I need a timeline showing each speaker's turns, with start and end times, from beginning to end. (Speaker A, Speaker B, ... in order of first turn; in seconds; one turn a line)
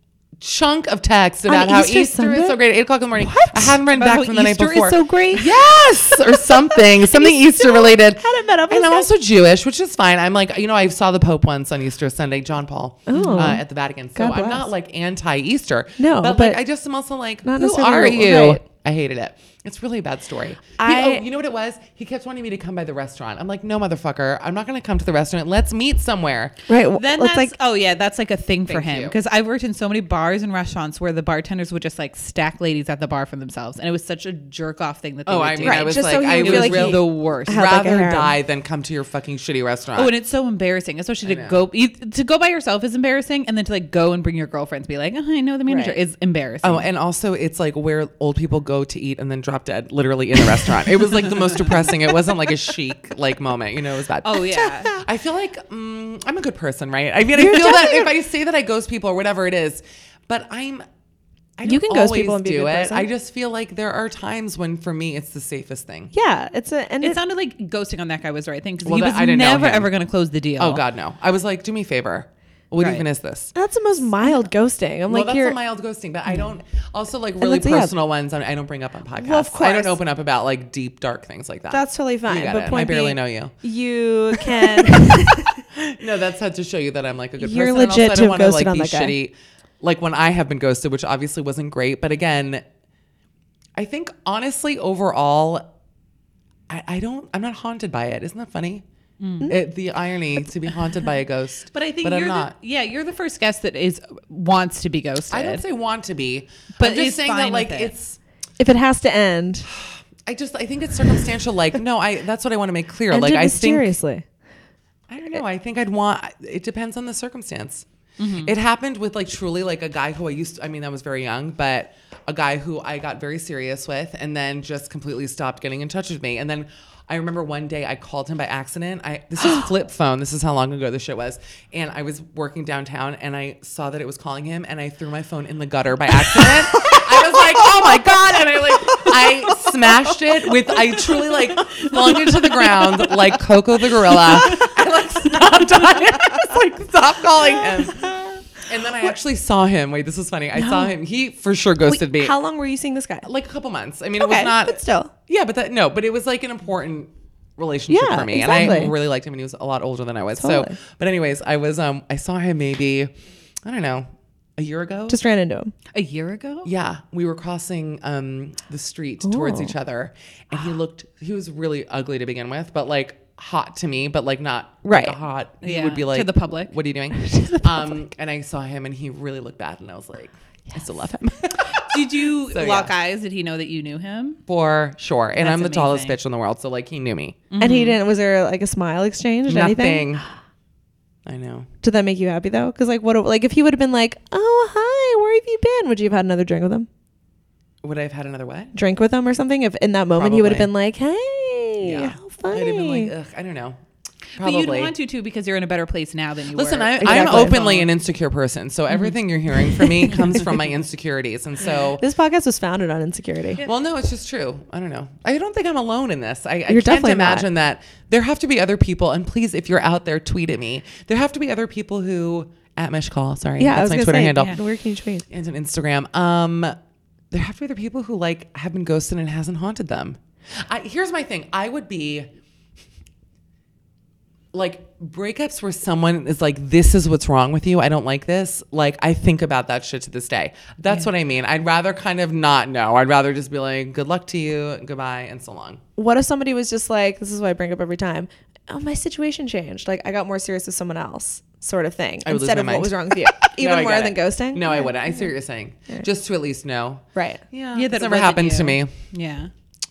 Speaker A: 0.4-26.5
Speaker B: 1.5-2.6
Speaker B: 3.2-3.8
Speaker C: 3.9-5.5
Speaker B: 5.5-9.1
Speaker B: 13.1-13.6
Speaker C: 13.1-13.6
Speaker B: 14.1-14.7
Speaker B: 16.0-16.6
Speaker B: 17.4-18.6
Speaker B: 20.8-21.2
Speaker B: 26.7-27.5
Speaker C: 26.9-37.6
Speaker A: 28.7-29.1
Speaker A: 35.2-40.1
Speaker B: 35.6-38.3
Speaker C: 39.9-46.9
Speaker A: 41.2-41.6
Speaker B: 45.7-46.0
Speaker A: 46.6-60.8
Speaker C: 54.2-55.0
Speaker B: 54.5-55.0
Speaker B: 57.3-58.1
Speaker A: 61.6-66.1
Speaker B: 61.6-63.1
Speaker B: 66.1-67.2
Speaker C: 67.0-70.8
Speaker A: 68.8-69.9
Speaker A: 70.6-73.5
Speaker C: 72.8-73.0
Speaker B: 73.5-75.6
Speaker A: 75.1-83.5
Speaker B: 77.4-77.9
Speaker B: 79.2-80.0
Speaker B: 81.7-85.6
Speaker C: 82.7-82.9
Speaker A: 84.4-85.1
Speaker A: 85.7-92.6
Speaker B: 87.4-89.2
Speaker A: 93.8-95.7
Speaker A: 96.7-98.8
Speaker C: 99.2-99.5
Speaker A: 99.5-102.5
Speaker C: 101.7-105.6
Speaker A: 105.3-108.2
Speaker C: 106.8-107.9
Speaker B: 108.6-109.7
Speaker A: 109.8-113.9
Speaker B: 113.1-114.2
Speaker A: 115.1-117.8
Speaker C: 118.2-118.5
Speaker A: 118.4-148.1
Speaker B: 136.8-139.9
Speaker B: 140.4-143.1
Speaker B: 144.1-144.8
Speaker B: 147.6-148.6
Speaker A: 148.7-152.3
Speaker B: 150.6-150.9
Speaker B: 151.9-153.3
Speaker A: 153.2-163.1
Speaker B: 154.2-155.1
Speaker B: 157.9-158.9
Speaker C: 158.5-158.9
Speaker B: 160.4-160.7
Speaker A: 163.6-165.2
Speaker B: 165.1-165.7
Speaker C: 165.9-166.7
Speaker A: 166.6-182.9
Speaker B: 169.2-169.7
Speaker B: 174.8-175.2
Speaker C: 175.6-176.7
Speaker B: 177.1-177.9
Speaker C: 181.7-184.4
Speaker A: 184.5-187.4
Speaker C: 185.4-186.2
Speaker C: 187.5-188.0
Speaker B: 187.6-190.1
Speaker A: 189.5-190.2
Speaker A: 191.2-191.7
Speaker B: 191.8-196.9
Speaker A: 197.8-198.7
Speaker B: 198.7-203.1
Speaker A: 200.1-200.7
Speaker A: 201.8-203.8
Speaker A: 204.4-204.9
Speaker C: 204.4-207.9
Speaker A: 206.5-212.0
Speaker B: 207.0-207.8
Speaker C: 208.9-209.2
Speaker B: 212.0-213.6
Speaker A: 213.6-224.6
Speaker B: 216.7-217.5
Speaker B: 223.6-225.2
Speaker A: 225.3-226.7
Speaker A: 227.3-232.3
Speaker A: 234.5-245.8
Speaker B: 246.0-255.3
Speaker A: 252.2-258.9
Speaker B: 257.1-257.4
Speaker C: 257.7-259.5